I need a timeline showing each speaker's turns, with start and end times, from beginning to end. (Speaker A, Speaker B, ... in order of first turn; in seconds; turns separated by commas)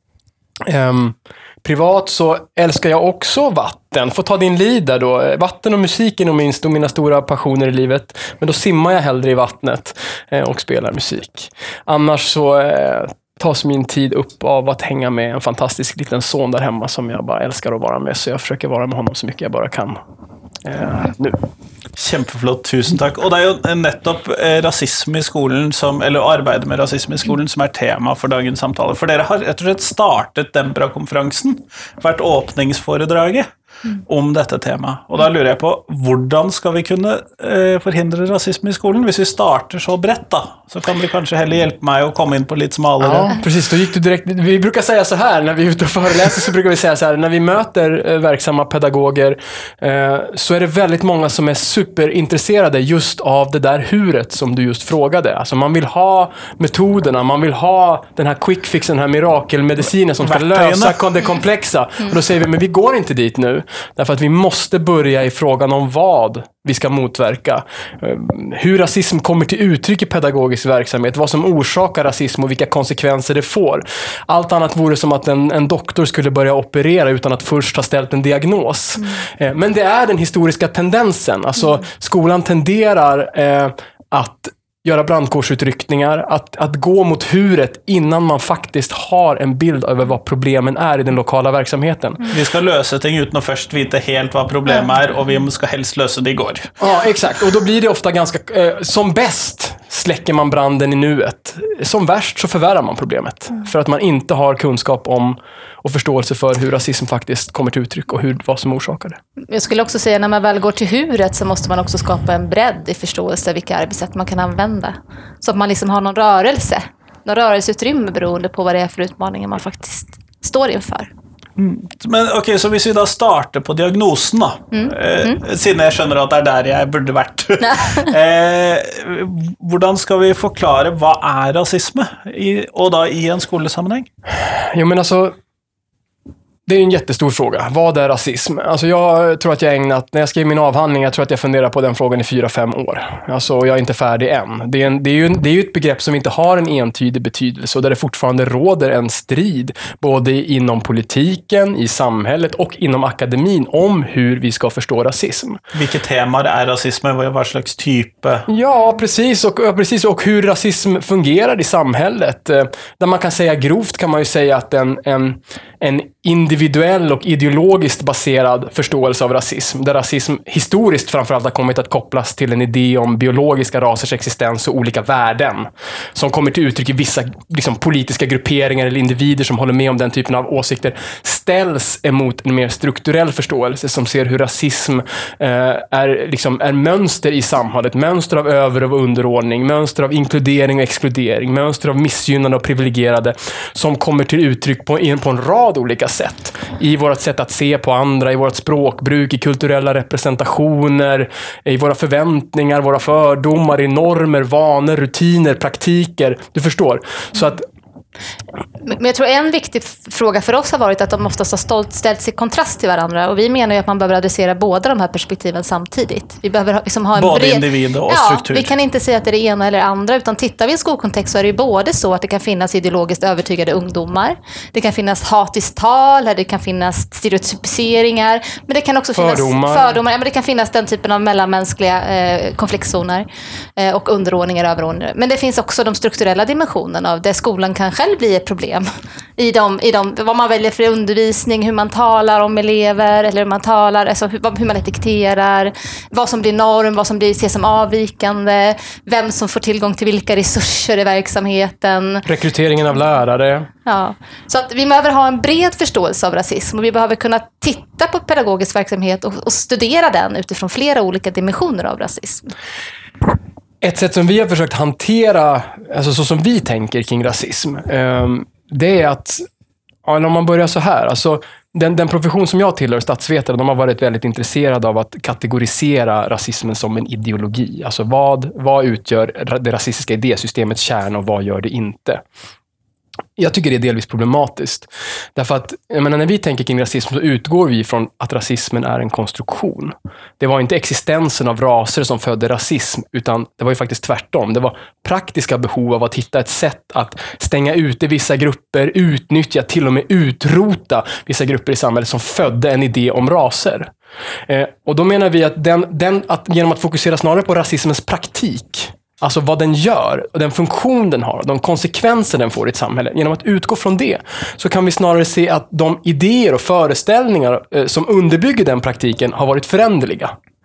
Speaker A: 0.6-20.0, Speaker A: 20.6-21.4, Speaker B: 21.9-33.5, Speaker B: 34.0-43.3, Speaker A: 43.0-92.3, Speaker B: 60.2-61.0, Speaker B: 92.3-96.7, Speaker A: 96.8-109.2, Speaker C: 109.5-121.1, Speaker B: 121.6-134.1, Speaker C: 124.7-125.4, Speaker C: 127.6-128.1, Speaker A: 134.3-135.3, Speaker A: 136.7-155.6, Speaker B: 155.7-158.5, Speaker A: 158.5-207.7, Speaker C: 208.8-238.8, Speaker B: 217.1-218.7, Speaker A: 229.2-230.0, Speaker C: 239.4-252.2, Speaker A: 252.2-253.7, Speaker C: 253.8-262.5, Speaker A: 263.8-269.4, Speaker A: 270.0-282.2, Speaker A: 283.4-303.9, Speaker A: 304.5-320.3